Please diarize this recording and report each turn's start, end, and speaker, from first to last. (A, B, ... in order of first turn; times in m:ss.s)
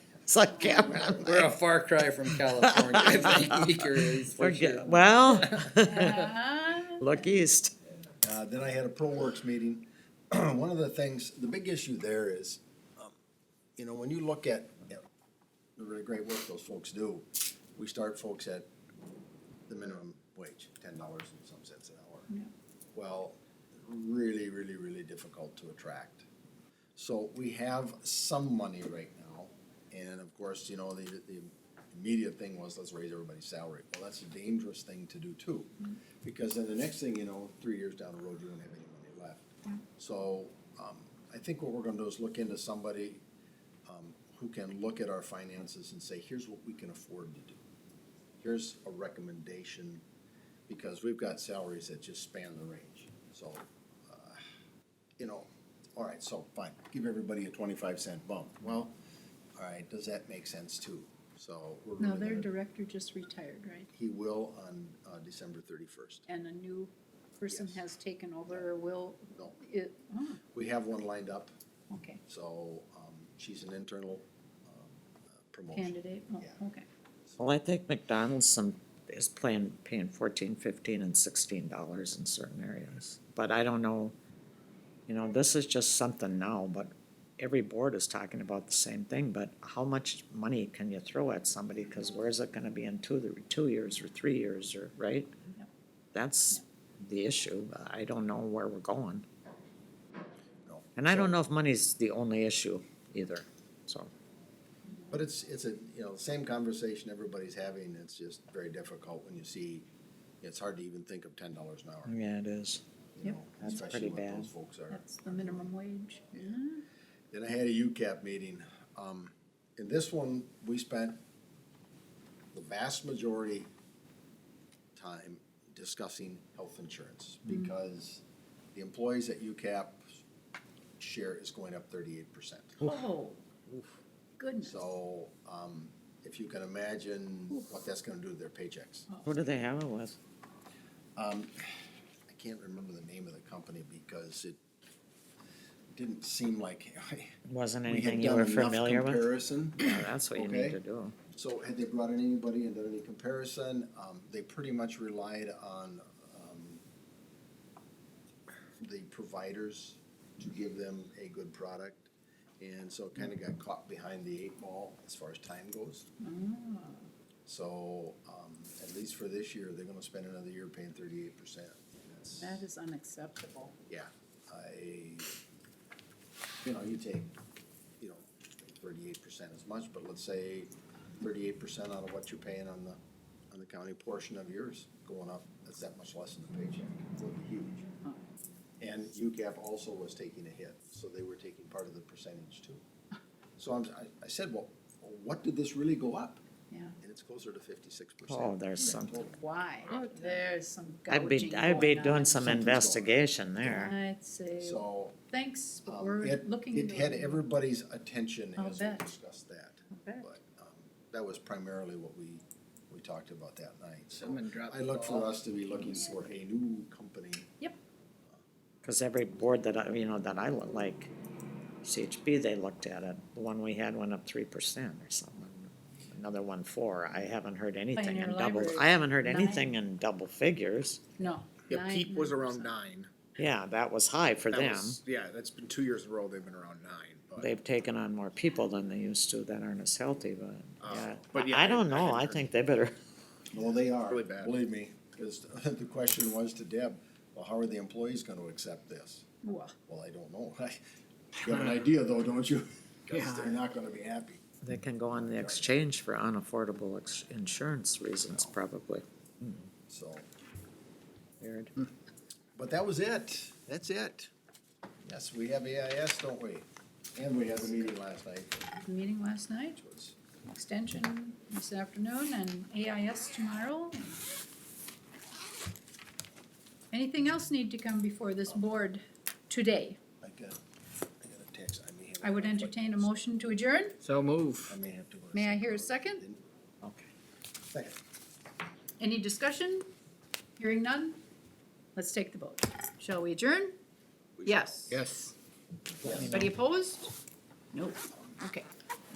0:00.2-0:01.5 A
0:01.1-0:06.1 B
0:02.5-0:06.3 A
0:05.8-0:07.2 C
0:06.9-0:07.7 A
0:08.2-0:13.1 D
0:13.8-0:15.0 D
0:15.8-0:18.7 D
0:19.7-0:22.3 D
0:22.9-0:26.2 D
0:27.0-0:35.7 D
0:36.2-0:43.2 D
0:43.8-0:47.6 D
0:48.4-0:50.0 D
0:50.7-0:54.4 D
0:55.2-0:58.9 D
0:59.6-1:02.5 D
1:02.0-1:03.9 C
1:03.9-1:06.2 D
1:06.3-1:10.4 C
1:07.5-1:07.8 D
1:10.5-1:11.5 D
1:11.9-1:12.2 C
1:12.3-1:16.6 D
1:15.7-1:16.8 C
1:17.4-1:24.1 A
1:25.1-1:35.3 A
1:36.1-1:39.2 A
1:40.6-1:41.4 D
1:41.0-1:44.1 A
1:44.8-1:45.2 C
1:45.1-1:49.9 D
1:50.4-1:52.1 D
1:52.0-1:52.8 A
1:53.2-1:55.7 D
1:53.6-1:54.5 A
1:54.9-1:56.8 C
1:56.3-1:56.6 D
1:57.3-2:01.2 D
2:02.5-2:03.7 D
2:04.9-2:10.0 D
2:11.0-2:12.8 D
2:12.8-2:13.4 C
2:14.4-2:14.8 C
2:14.6-2:19.1 D
2:19.1-2:19.3 C
2:19.2-2:20.2 A
2:21.2-2:21.8 D
2:22.3-2:24.6 D
2:25.9-2:30.8 D
2:27.5-2:31.2 A
2:31.3-2:36.8 D
2:38.8-2:42.1 D
2:42.6-2:46.1 D
2:46.2-2:47.1 C
2:47.4-2:52.6 D
2:52.4-2:53.8 C
2:53.9-2:55.3 D
2:56.6-2:57.3 D
2:58.0-3:03.0 D
3:03.5-3:07.9 D
3:08.8-3:12.8 D
3:13.6-3:16.4 D
3:16.7-3:17.0 C
3:17.0-3:19.4 D
3:18.3-3:19.3 A
3:18.8-3:22.6 C
3:19.9-3:20.5 B
3:21.1-3:23.9 A
3:22.3-3:23.9 D
3:23.6-3:27.4 C
3:24.6-3:25.2 D
3:25.8-3:37.5 D
3:28.6-3:29.1 C
3:29.9-3:30.3 C
3:34.2-3:35.4 B
3:38.8-3:41.1 A
3:41.8-3:51.2 A
3:47.9-3:49.7 C
3:51.2-3:52.8 C
3:52.2-3:53.1 E
3:53.4-3:55.0 A
3:54.6-3:57.4 E
3:57.4-4:02.9 A
4:01.4-4:02.3 B
4:03.5-4:09.3 D
4:04.2-4:04.4 B
4:09.4-4:09.7 C
4:09.9-4:10.8 D
4:11.4-4:14.4 D
4:13.2-4:13.5 B
4:14.6-4:19.7 A
4:15.1-4:15.7 D
4:19.9-4:20.3 D
4:21.4-4:21.7 A
4:22.6-4:24.3 D
4:25.0-4:28.7 D
4:28.8-4:29.8 C
4:29.7-4:30.2 D
4:30.4-4:34.1 C
4:36.9-4:40.0 C
4:40.2-4:40.6 D
4:41.2-4:43.6 D
4:42.2-4:44.0 C
4:44.0-4:44.8 B
4:44.6-4:46.4 D
4:45.3-4:46.2 C
4:46.8-4:47.1 A
4:47.7-4:48.0 D
4:49.0-4:49.9 C
4:50.6-4:51.2 C
4:52.0-4:53.8 C
4:54.4-4:54.8 D
4:54.4-4:55.0 C
4:54.9-4:55.3 B
4:56.0-4:56.5 A
4:56.0-4:56.4 D
4:56.0-4:57.1 C
4:57.7-4:58.7 C